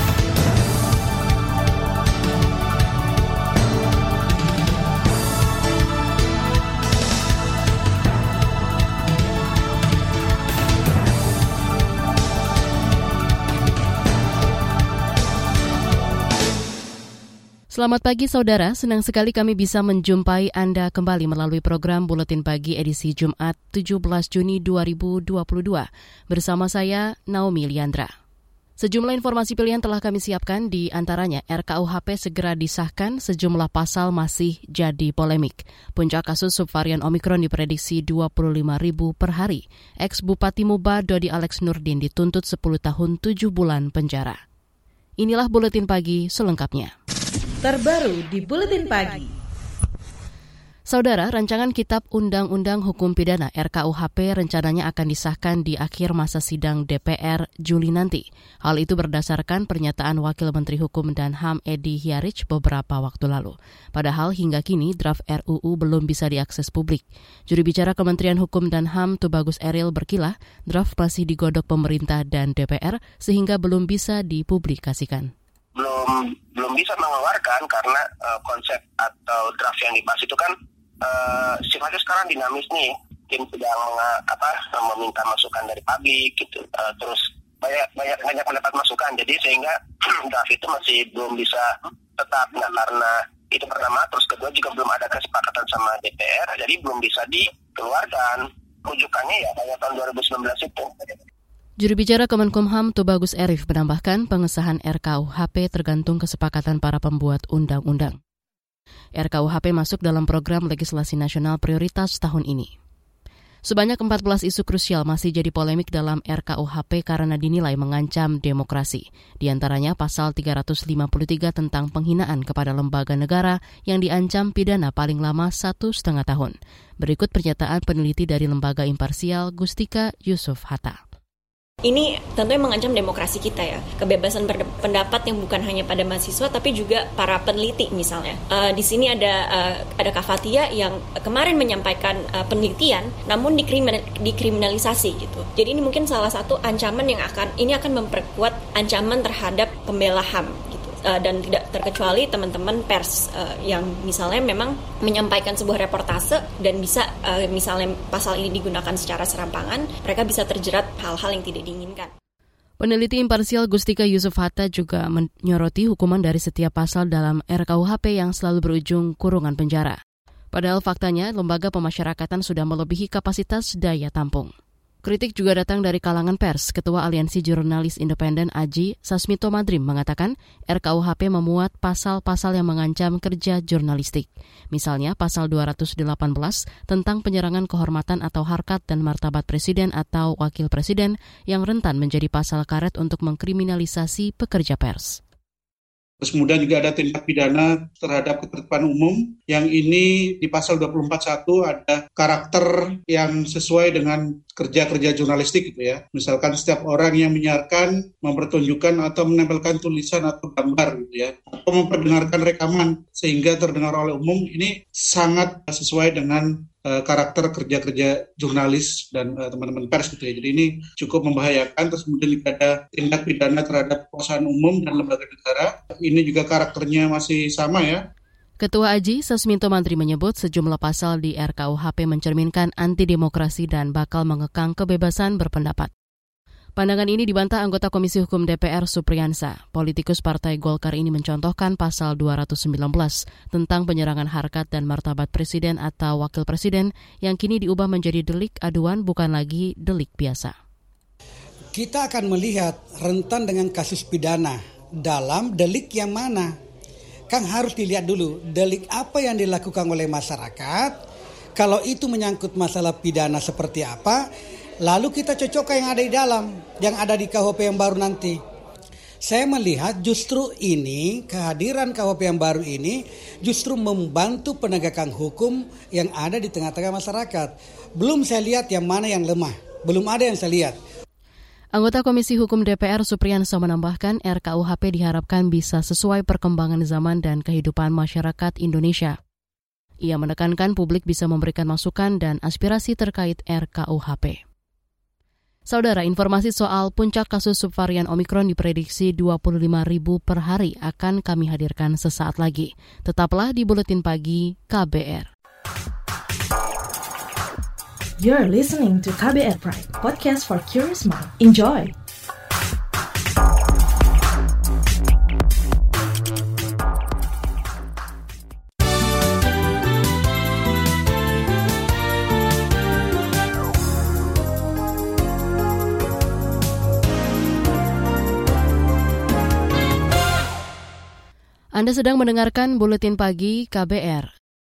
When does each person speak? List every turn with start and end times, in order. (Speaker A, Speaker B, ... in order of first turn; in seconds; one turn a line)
Speaker A: 17.7-28.1
Speaker A: 28.8-44.4
Speaker A: 45.2-46.9
Speaker B: 47.6-49.3
Speaker A: 50.9-75.3
Speaker C: 75.8-101.2
Speaker A: 101.8-108.2
Speaker A: 109.2-112.7
Speaker A: 113.7-131.0
Speaker D: 131.8-162.1
Speaker A: 162.8-170.0
Speaker A: 170.5-174.5
Speaker A: 175.0-195.2
Speaker E: 196.2-228.0
Speaker A: 228.6-235.9
Speaker A: 236.8-250.6
Speaker F: 251.7-256.6
Speaker F: 257.3-261.0
Speaker F: 261.6-264.2
Speaker F: 264.9-268.4
Speaker F: 269.3-280.8
Speaker A: 281.7-289.2
Speaker A: 290.0-294.4
Speaker A: 295.7-305.3
Speaker B: 308.2-311.9
Speaker A: 331.8-334.3